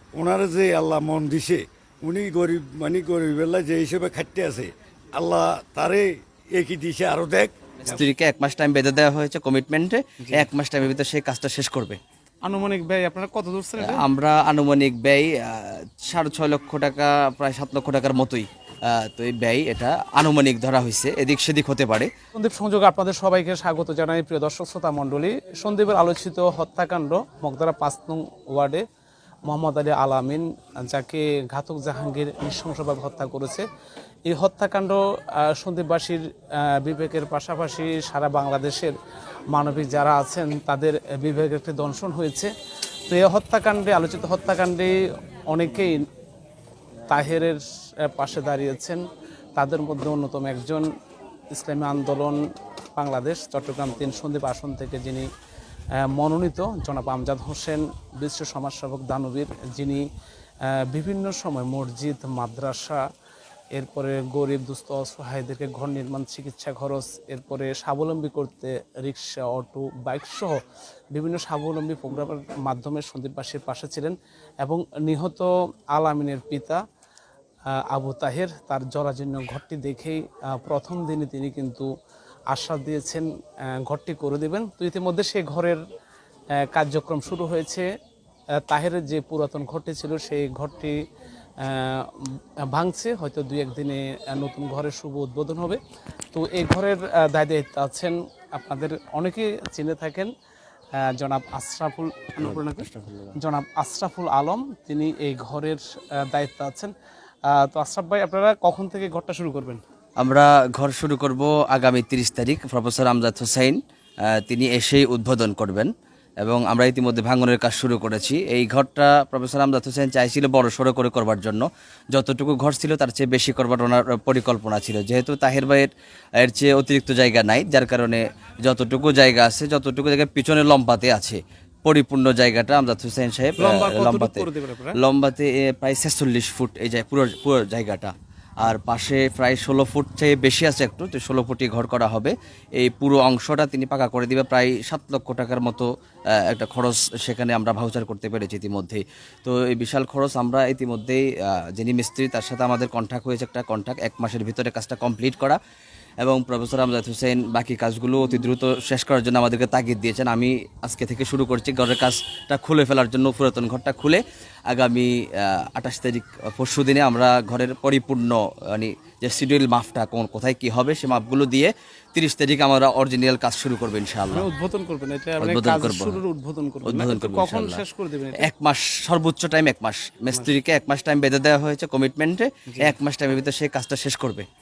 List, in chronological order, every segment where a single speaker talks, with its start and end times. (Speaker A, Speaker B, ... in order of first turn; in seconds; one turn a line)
Speaker A: 0.2-7.5
Speaker B: 7.8-12.0
Speaker C: 10.2-10.5
Speaker C: 12.4-14.0
Speaker B: 13.8-22.1
Speaker C: 22.4-28.8
Speaker C: 29.5-33.6
Speaker C: 34.3-39.0
Speaker C: 39.5-42.5
Speaker C: 43.1-44.9
Speaker C: 45.5-46.0
Speaker C: 47.1-49.0
Speaker C: 49.6-50.9
Speaker C: 51.5-52.4
Speaker C: 53.0-55.3
Speaker C: 56.0-60.0
Speaker C: 60.7-63.0
Speaker C: 63.8-70.6
Speaker C: 71.1-76.8
Speaker C: 77.8-81.9
Speaker C: 82.5-83.3
Speaker C: 83.8-85.8
Speaker C: 86.6-87.9
Speaker C: 88.7-91.0
Speaker C: 91.6-95.8
Speaker C: 96.3-100.3
Speaker C: 101.0-106.9
Speaker B: 102.5-103.3
Speaker C: 107.5-109.8
Speaker B: 110.2-155.6
Speaker C: 133.6-135.0
Speaker B: 156.2-174.5
Speaker C: 174.3-178.5
Speaker B: 175.4-176.2
Speaker B: 176.8-177.8
Speaker B: 178.4-184.5